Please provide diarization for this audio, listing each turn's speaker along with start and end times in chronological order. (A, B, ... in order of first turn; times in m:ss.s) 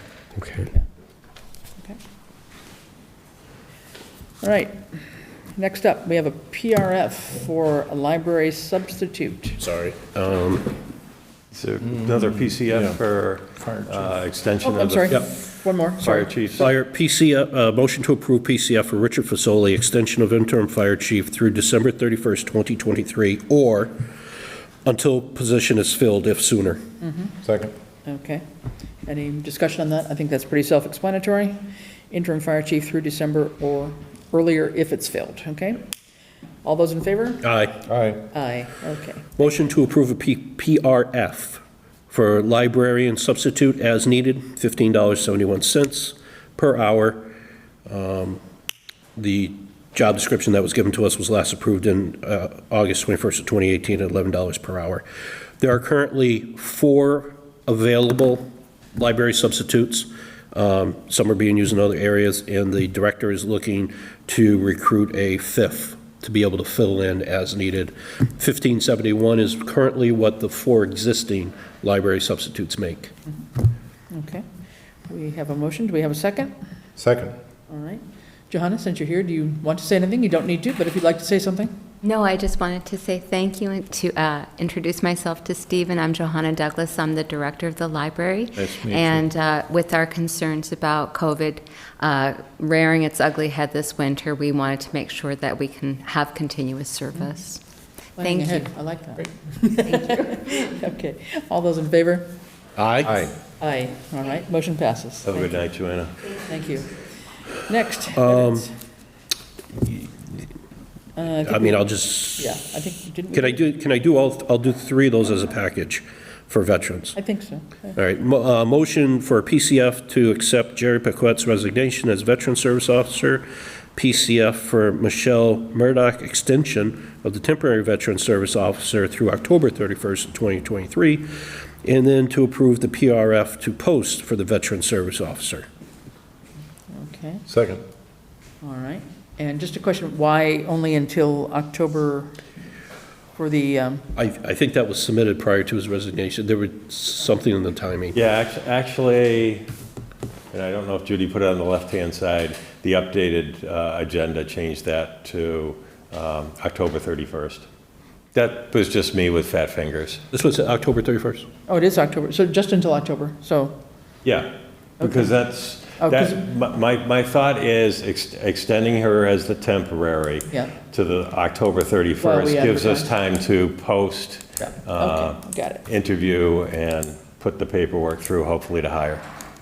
0:04.4-0:04.8 A
0:05.5-0:09.6 A
0:09.6-0:10.8 B
0:11.5-0:15.4 C
0:12.7-0:13.0 D
0:13.6-0:14.0 D
0:14.6-0:16.6 A
0:16.0-0:16.7 C
0:16.6-0:24.1 B
0:24.8-0:26.8 B
0:27.0-0:27.3 A
0:27.4-0:27.7 D
0:28.0-0:28.4 A
0:29.0-0:35.8 A
0:36.6-0:37.5 A
0:37.4-0:37.8 B
0:37.9-0:38.2 D
0:38.3-0:39.4 A
0:39.4-0:47.3 B
0:47.8-0:48.4 B
0:49.2-0:55.0 B
0:55.6-1:13.1 B
1:14.1-1:14.4 A
1:15.0-1:16.5 A
1:17.0-1:17.4 D
1:17.7-1:21.7 A
1:22.0-1:37.6 E
1:28.6-1:29.2 D
1:38.2-1:42.3 A
1:38.2-1:38.6 E
1:39.8-1:40.6 E
1:42.8-1:43.2 B
1:43.6-1:45.6 A
1:45.2-1:46.3 C
1:46.4-1:47.0 A
1:47.5-1:48.7 A
1:48.1-1:48.7 B
1:51.2-1:51.8 A
1:51.4-1:52.6 B
1:52.4-1:53.6 A
1:53.3-1:57.2 B
1:57.2-1:58.0 A
1:58.0-2:15.7 B
2:16.9-2:17.4 A
2:17.5-2:17.8 D
2:18.6-2:22.4 A
2:23.4-2:24.1 A
2:24.1-2:28.2 B
2:28.1-2:29.7 C
2:30.5-2:37.7 C
2:38.3-2:40.2 C
2:40.3-2:41.5 B
2:41.7-2:43.8 A
2:44.2-2:59.2 C
2:46.0-2:46.4 A
2:52.2-2:53.1 A
2:54.6-2:55.8 A